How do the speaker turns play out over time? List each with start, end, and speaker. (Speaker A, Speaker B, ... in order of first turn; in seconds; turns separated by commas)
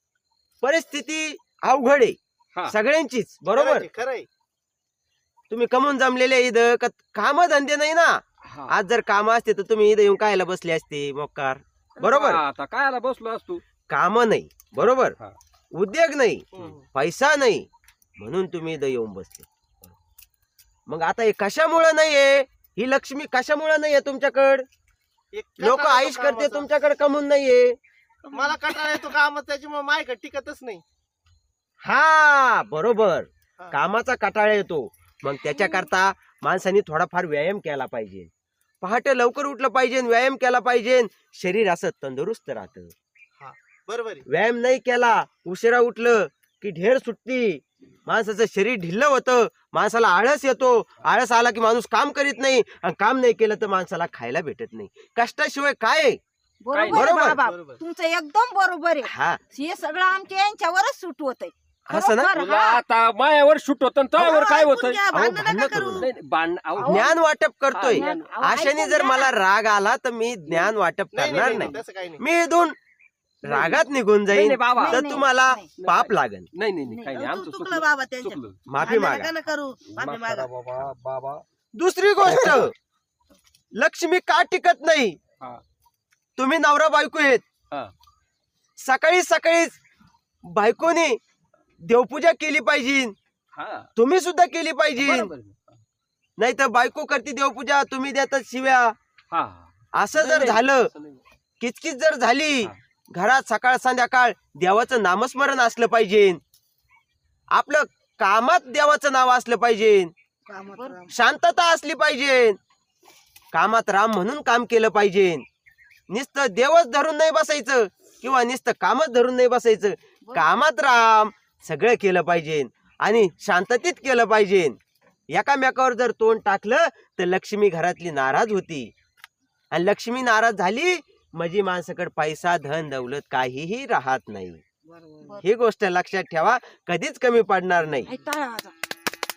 Speaker A: 0.6-2.2, Speaker A: 2.7-3.9, Speaker B: 3.5-4.3, Speaker A: 5.5-12.4, Speaker C: 8.5-8.7, Speaker C: 12.0-13.6, Speaker A: 13.9-15.2, Speaker A: 15.8-17.7, Speaker B: 16.6-16.8, Speaker A: 18.2-19.9, Speaker A: 20.9-24.7, Speaker B: 25.3-26.7, Speaker A: 25.6-27.8, Speaker B: 28.3-30.8, Speaker A: 31.8-38.3, Speaker A: 38.8-42.9, Speaker B: 43.4-44.2, Speaker A: 44.3-56.2, Speaker D: 56.6-62.8, Speaker C: 56.7-57.2, Speaker A: 56.9-57.4, Speaker B: 57.3-57.8, Speaker A: 59.0-59.4, Speaker A: 61.9-62.3, Speaker C: 62.3-67.2, Speaker E: 64.2-66.1, Speaker A: 65.1-66.1, Speaker A: 66.8-72.8, Speaker C: 67.7-68.4, Speaker D: 68.0-69.3, Speaker C: 70.5-70.7, Speaker B: 71.1-72.2, Speaker A: 73.4-76.5, Speaker C: 73.5-78.6, Speaker D: 74.8-75.6, Speaker E: 77.1-80.5, Speaker A: 78.7-79.3, Speaker C: 79.9-81.4, Speaker A: 81.8-82.7, Speaker C: 82.2-82.7, Speaker A: 83.8-85.2, Speaker A: 86.4-87.4, Speaker A: 88.8-89.8, Speaker A: 90.5-91.2, Speaker A: 91.8-93.2, Speaker C: 93.5-93.9, Speaker A: 94.0-95.3, Speaker C: 95.0-95.8, Speaker A: 96.4-99.0, Speaker C: 99.3-101.2, Speaker A: 100.0-100.9, Speaker A: 101.6-106.4, Speaker A: 107.5-110.1, Speaker D: 110.5-111.1, Speaker A: 111.1-112.6, Speaker A: 113.5-115.5, Speaker A: 116.1-124.8, Speaker A: 125.3-128.9, Speaker A: 129.7-134.6, Speaker D: 134.9-135.4, Speaker A: 135.4-138.1, Speaker D: 138.1-138.7